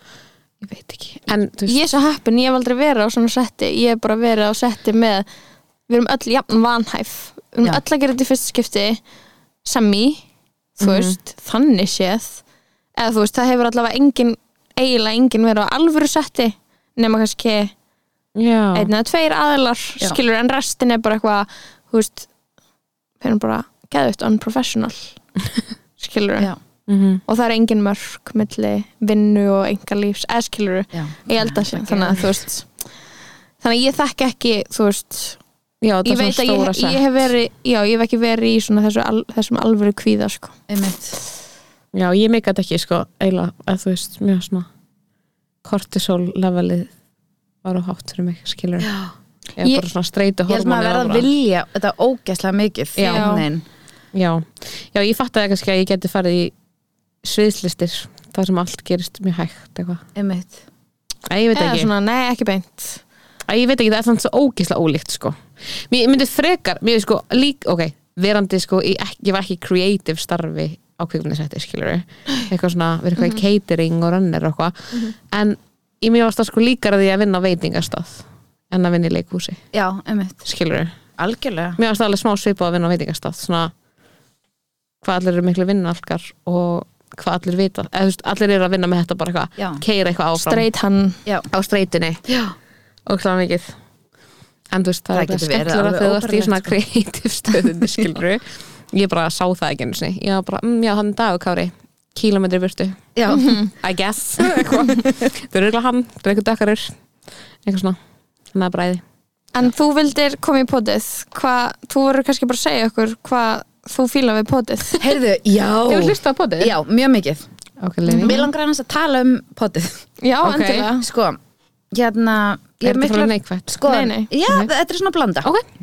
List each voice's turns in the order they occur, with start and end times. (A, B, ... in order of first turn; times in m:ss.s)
0:00.6-0:01.8 A
0:01.7-0:05.2 B
0:05.9-0:09.0 B
0:09.6-0:10.2 B
0:10.8-0:12.4 B
0:10.8-0:11.1 A
0:13.0-0:17.7 B
0:18.4-0:18.9 A
0:18.7-0:22.3 B
0:23.2-0:25.1 B
0:26.0-0:26.5 B
0:26.9-0:27.2 A
0:27.2-0:32.7 B
0:30.9-0:32.3 C
0:33.6-0:35.4 B
0:35.8-0:37.3 A
0:36.0-0:40.5 B
0:40.7-0:41.2 C
0:41.9-0:44.7 A
0:45.6-0:46.9 A
0:47.6-0:48.9 A
0:48.8-0:49.1 C
0:49.6-0:51.3 A
0:50.5-0:53.6 C
0:53.0-0:53.3 A
0:53.0-0:53.4 B
0:54.1-0:56.5 A
0:57.2-1:00.0 A
1:00.2-1:00.6 C
1:01.3-1:01.9 A
1:01.5-1:03.0 B
1:03.5-1:05.4 A
1:05.9-1:19.6 A
1:19.7-1:20.5 C
1:20.4-1:20.9 A
1:21.2-1:21.8 C
1:21.8-1:23.7 A
1:25.0-1:30.7 A
1:30.4-1:31.2 B
1:31.5-1:32.2 A
1:32.3-1:32.5 C
1:33.1-1:33.7 A
1:34.7-1:43.2 A
1:35.1-1:36.7 C
1:43.2-1:43.5 C
1:43.3-1:43.7 B
1:43.7-1:46.9 A
1:44.4-1:45.1 C
1:47.6-1:48.0 A
1:48.5-1:49.0 A
1:49.5-1:55.0 B
1:55.0-1:57.4 C
1:55.9-1:56.7 A
1:57.8-1:58.4 A
1:58.0-1:58.4 B
1:58.2-2:00.0 C
2:00.2-2:01.0 B
2:00.4-2:00.9 A
2:01.0-2:01.4 C
2:01.9-2:05.5 C
2:02.8-2:03.7 A
2:03.8-2:04.3 B